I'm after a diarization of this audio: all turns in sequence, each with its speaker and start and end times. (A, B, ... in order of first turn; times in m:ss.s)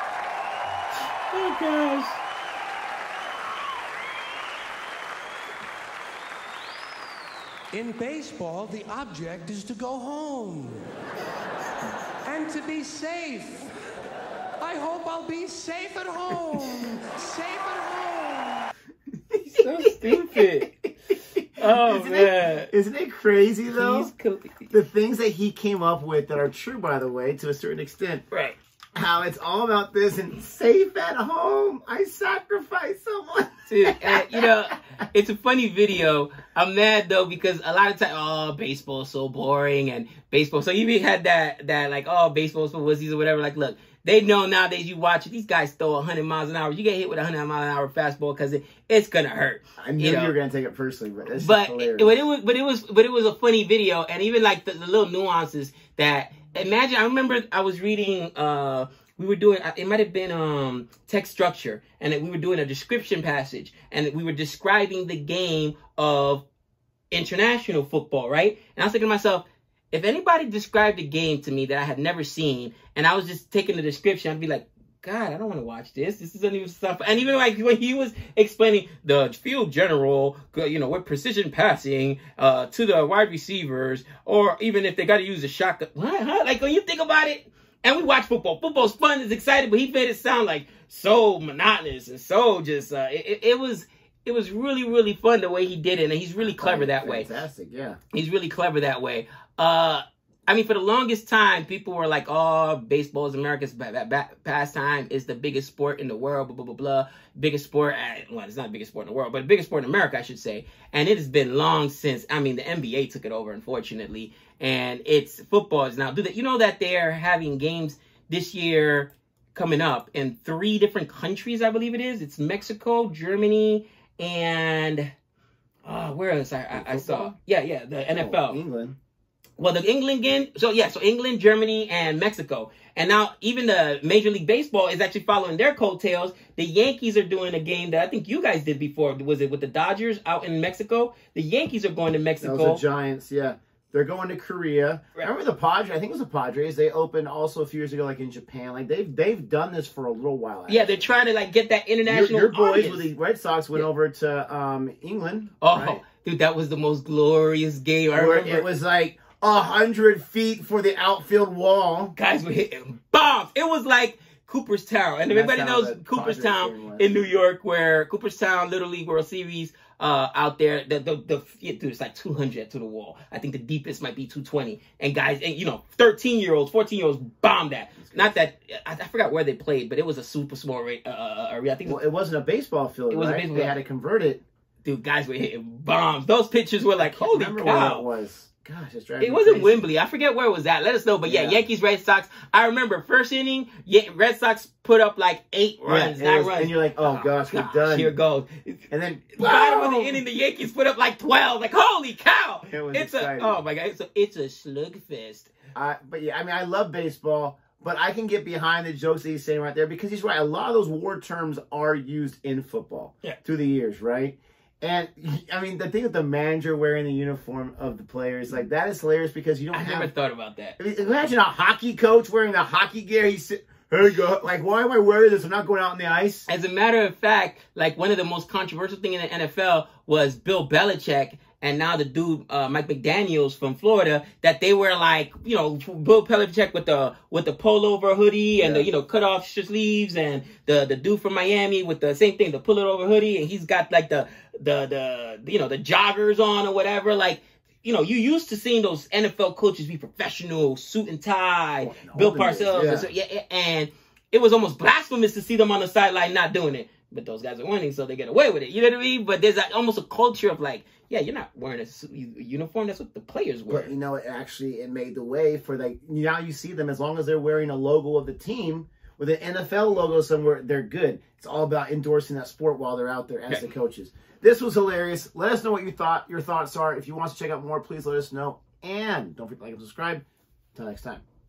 0:01.3-0:02.2 A
0:07.7-0:10.9 B
0:12.2-0:13.7 B
0:14.6-0:18.7 B
0:19.4-0:20.9 A
0:21.5-0:22.7 A
0:21.6-0:24.1 C
0:23.7-0:24.7 A
0:24.7-0:28.2 C
0:28.3-0:28.6 A
0:29.0-0:34.5 C
0:33.7-0:50.4 A
0:49.8-0:52.2 C
0:51.4-1:06.4 A
1:07.1-1:37.3 A
1:36.4-1:38.0 C
1:38.1-2:05.1 A
2:05.8-2:08.6 A
2:06.7-2:07.4 C
2:08.1-2:09.0 C
2:09.6-2:22.8 A
2:22.4-2:31.0 C
2:30.7-2:33.1 A
2:32.0-2:36.0 C
2:35.6-2:38.7 A
2:38.1-2:42.2 C
2:42.2-3:02.0 A
2:45.3-2:47.2 C
2:58.0-2:58.4 C
3:01.8-3:04.4 C
3:03.1-3:03.7 A
3:04.8-3:08.0 A
3:07.0-3:09.8 C
3:09.2-3:25.5 A
3:11.2-3:11.7 C
3:15.9-3:18.2 C
3:18.9-3:20.2 C
3:22.7-3:23.6 C
3:25.8-3:40.1 C
3:39.7-3:40.8 A
3:40.8-3:46.5 C
3:46.5-4:23.9 A
3:58.6-3:58.9 C
4:11.8-4:13.1 C
4:23.7-4:40.2 C
4:40.8-4:41.2 C